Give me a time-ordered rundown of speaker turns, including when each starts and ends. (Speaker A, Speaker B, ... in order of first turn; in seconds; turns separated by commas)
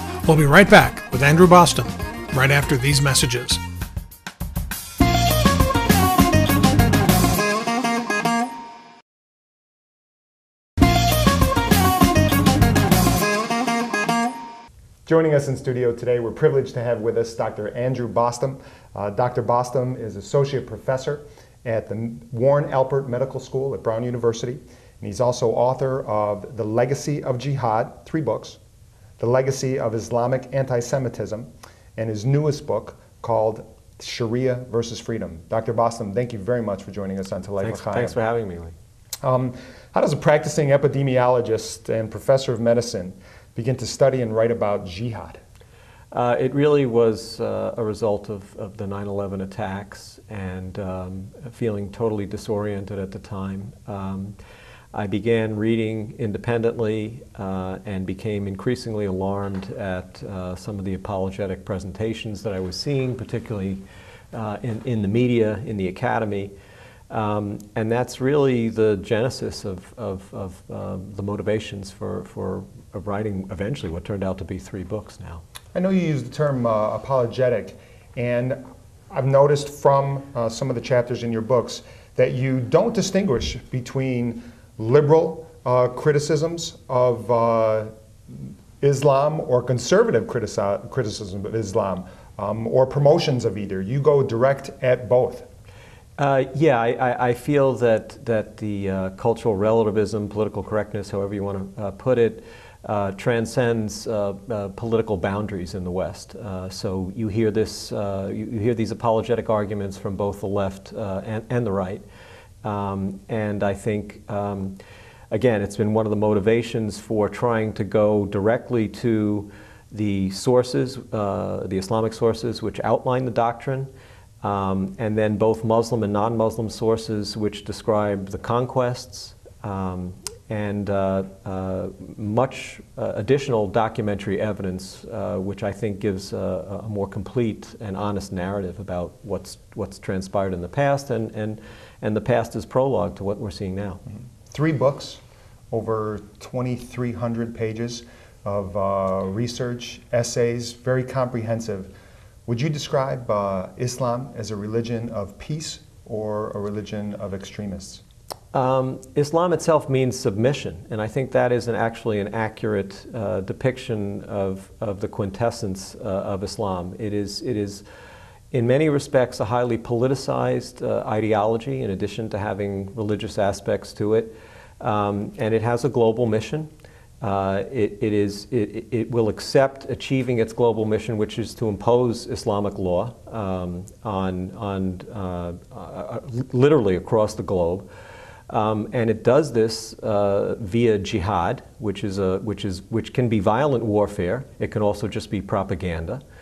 Speaker A: 0.2-3.6, Speaker B: 15.1-28.6, Speaker B: 29.2-38.2, Speaker C: 37.6-38.7, Speaker B: 39.2-45.4, Speaker C: 46.1-54.3, Speaker C: 54.9-66.5, Speaker C: 67.1-75.4, Speaker B: 75.7-95.5, Speaker C: 96.2-112.0, Speaker C: 112.6-114.8, Speaker C: 115.3-123.9, Speaker C: 124.4-144.0, Speaker B: 144.5-151.9, Speaker B: 152.4-158.0, Speaker C: 158.5-167.8, Speaker C: 168.5-176.7, Speaker C: 177.2-187.9, Speaker C: 188.5-196.2